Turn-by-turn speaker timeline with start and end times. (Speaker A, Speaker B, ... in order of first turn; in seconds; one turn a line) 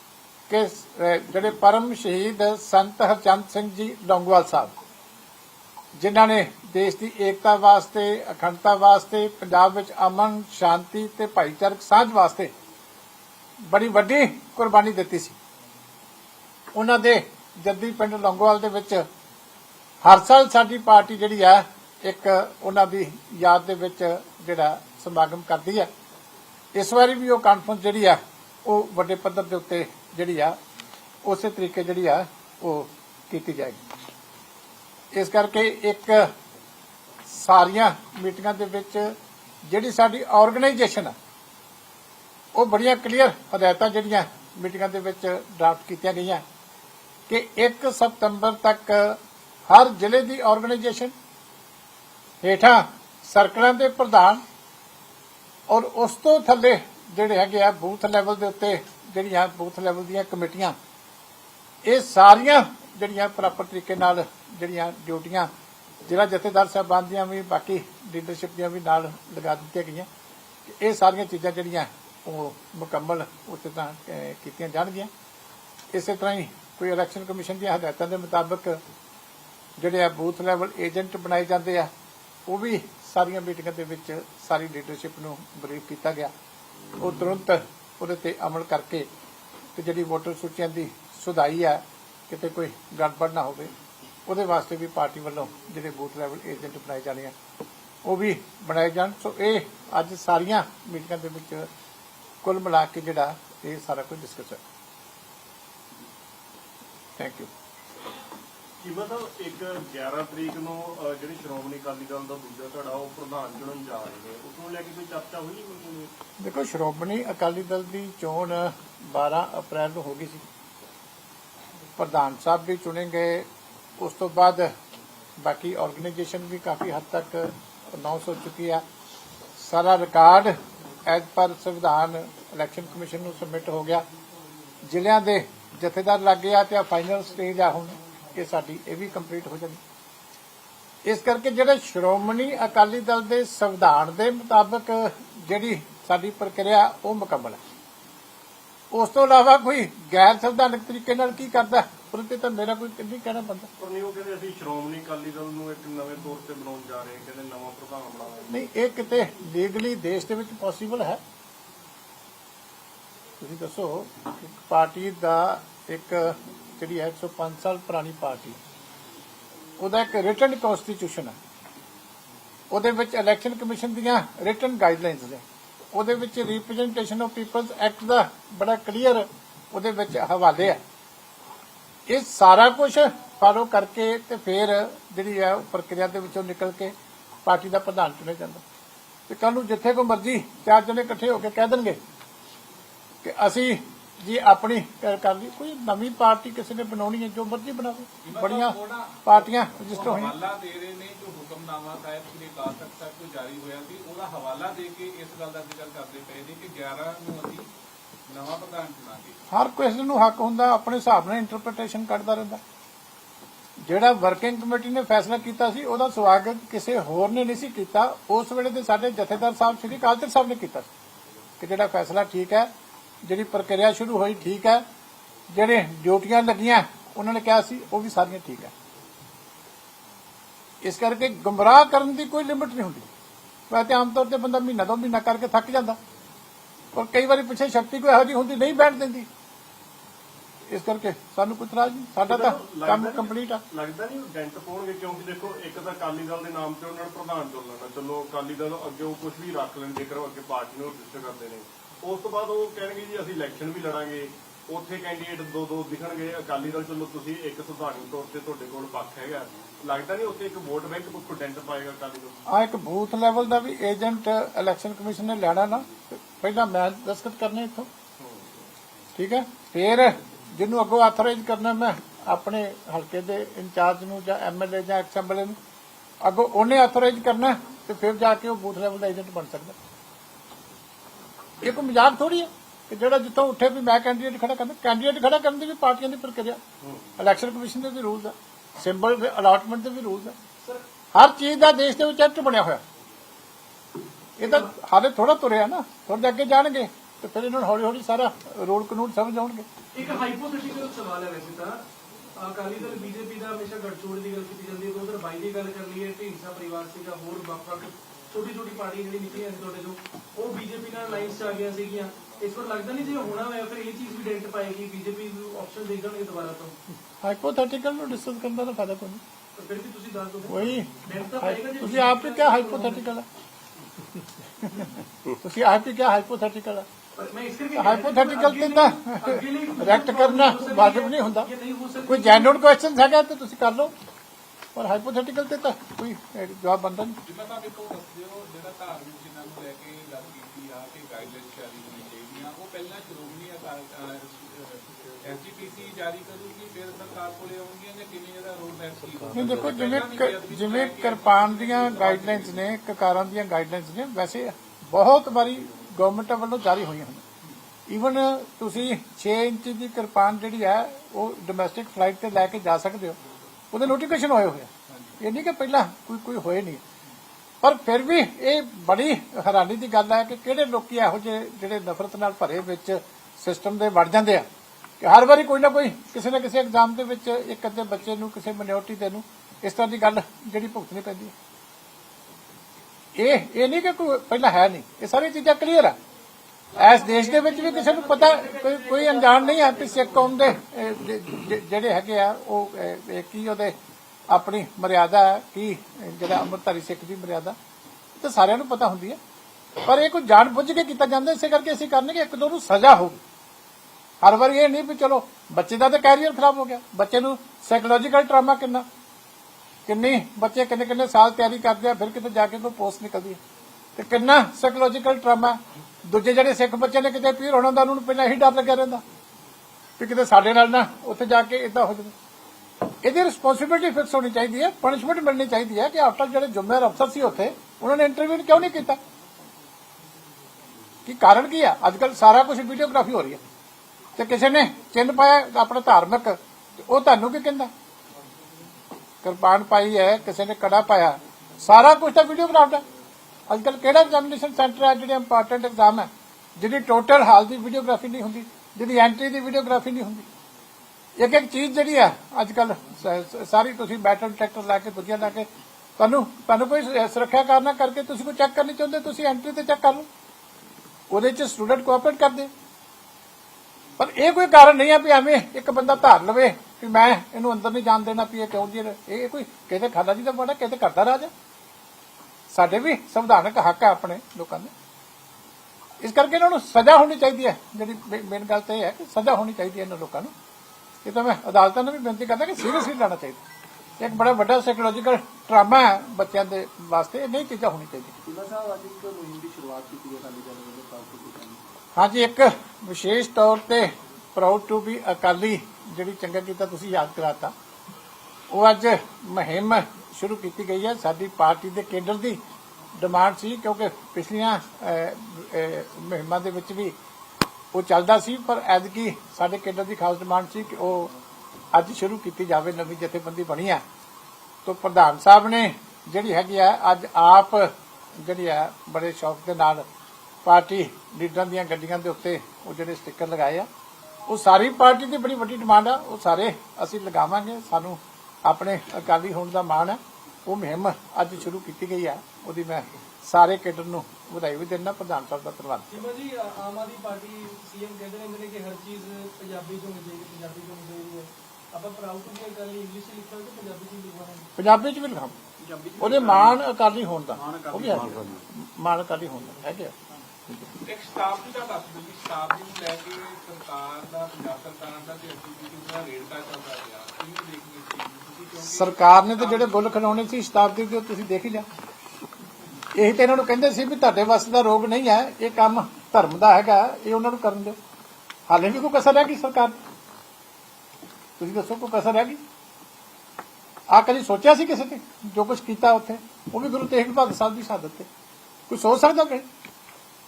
Speaker A: 0.5-4.7
Speaker A: 6.0-12.5
Speaker A: 13.7-15.3
Speaker A: 16.7-19.0
Speaker A: 20.0-25.9
Speaker A: 26.7-30.6
Speaker A: 31.2-33.8
Speaker A: 35.1-36.3
Speaker A: 37.3-39.1
Speaker A: 39.6-41.1
Speaker A: 42.5-46.4
Speaker A: 47.3-51.1
Speaker A: 52.4-54.4
Speaker A: 55.7-60.8
Speaker A: 61.8-65.5
Speaker A: 66.0-70.1
Speaker A: 70.6-75.1
Speaker A: 75.9-78.8
Speaker A: 79.8-81.9
Speaker A: 82.5-86.3
Speaker A: 87.0-89.1
Speaker A: 89.8-93.7
Speaker A: 94.2-97.3
Speaker A: 98.0-101.7
Speaker A: 102.4-104.6
Speaker A: 107.2-107.5
Speaker B: 108.8-116.1
Speaker A: 116.4-120.4
Speaker A: 122.0-123.5
Speaker A: 124.0-124.7
Speaker A: 125.4-128.8
Speaker A: 129.6-134.0
Speaker A: 134.8-139.8
Speaker A: 141.0-147.6
Speaker A: 148.9-153.7
Speaker B: 153.8-158.5
Speaker A: 158.5-161.2
Speaker A: 163.4-168.6
Speaker A: 169.8-171.3
Speaker A: 172.7-180.8
Speaker A: 182.1-186.9
Speaker A: 187.4-188.6
Speaker A: 189.3-192.0
Speaker A: 193.2-200.3
Speaker C: 198.2-207.7
Speaker C: 208.3-209.4
Speaker A: 209.5-212.6
Speaker A: 213.8-220.9
Speaker A: 221.6-222.7
Speaker A: 223.2-224.8
Speaker A: 225.5-228.7
Speaker A: 230.8-233.1
Speaker A: 233.7-236.0
Speaker A: 236.9-239.3
Speaker A: 240.7-243.6
Speaker B: 242.2-262.4
Speaker A: 262.5-267.9
Speaker A: 269.1-275.6
Speaker A: 276.2-279.8
Speaker A: 281.6-286.6
Speaker B: 286.8-287.1
Speaker A: 287.2-290.3
Speaker A: 291.1-292.8
Speaker A: 294.4-299.7
Speaker D: 299.9-301.8
Speaker D: 302.4-316.8
Speaker A: 317.2-319.2
Speaker D: 319.6-323.1
Speaker A: 320.5-323.2
Speaker A: 324.6-326.9
Speaker D: 327.1-332.5
Speaker A: 327.7-331.5
Speaker A: 332.1-333.9
Speaker A: 334.7-337.2
Speaker C: 337.2-352.6
Speaker A: 349.3-357.2
Speaker A: 357.9-363.2
Speaker A: 363.7-366.8
Speaker C: 364.9-365.1
Speaker A: 367.6-374.4
Speaker A: 375.0-381.3
Speaker A: 383.1-385.9
Speaker D: 386.8-390.3
Speaker A: 386.8-393.7
Speaker A: 394.3-397.6
Speaker A: 398.2-399.2
Speaker A: 399.8-403.2
Speaker A: 404.2-408.9
Speaker A: 409.9-413.4
Speaker A: 414.0-419.0
Speaker A: 420.0-422.1
Speaker A: 423.0-429.0
Speaker A: 431.1-433.4
Speaker A: 434.2-437.7
Speaker A: 439.2-442.8
Speaker A: 443.5-450.2
Speaker A: 451.2-460.1
Speaker A: 461.1-462.5
Speaker A: 464.0-471.3
Speaker A: 472.5-474.7
Speaker A: 476.0-480.3
Speaker A: 481.0-483.4
Speaker A: 484.0-488.1
Speaker E: 488.2-491.6
Speaker A: 491.9-497.5
Speaker A: 498.5-502.4
Speaker A: 503.0-506.9
Speaker A: 507.7-511.1
Speaker A: 511.7-513.8
Speaker A: 514.6-519.8
Speaker A: 520.4-523.7
Speaker A: 524.3-536.0
Speaker D: 535.9-544.5
Speaker A: 544.6-545.4
Speaker E: 545.6-546.5
Speaker A: 546.0-549.9
Speaker E: 547.4-548.3
Speaker C: 550.8-560.2
Speaker A: 558.6-561.6
Speaker A: 562.9-567.8
Speaker A: 568.5-569.7
Speaker A: 571.4-572.4
Speaker A: 573.9-578.1
Speaker A: 578.7-579.5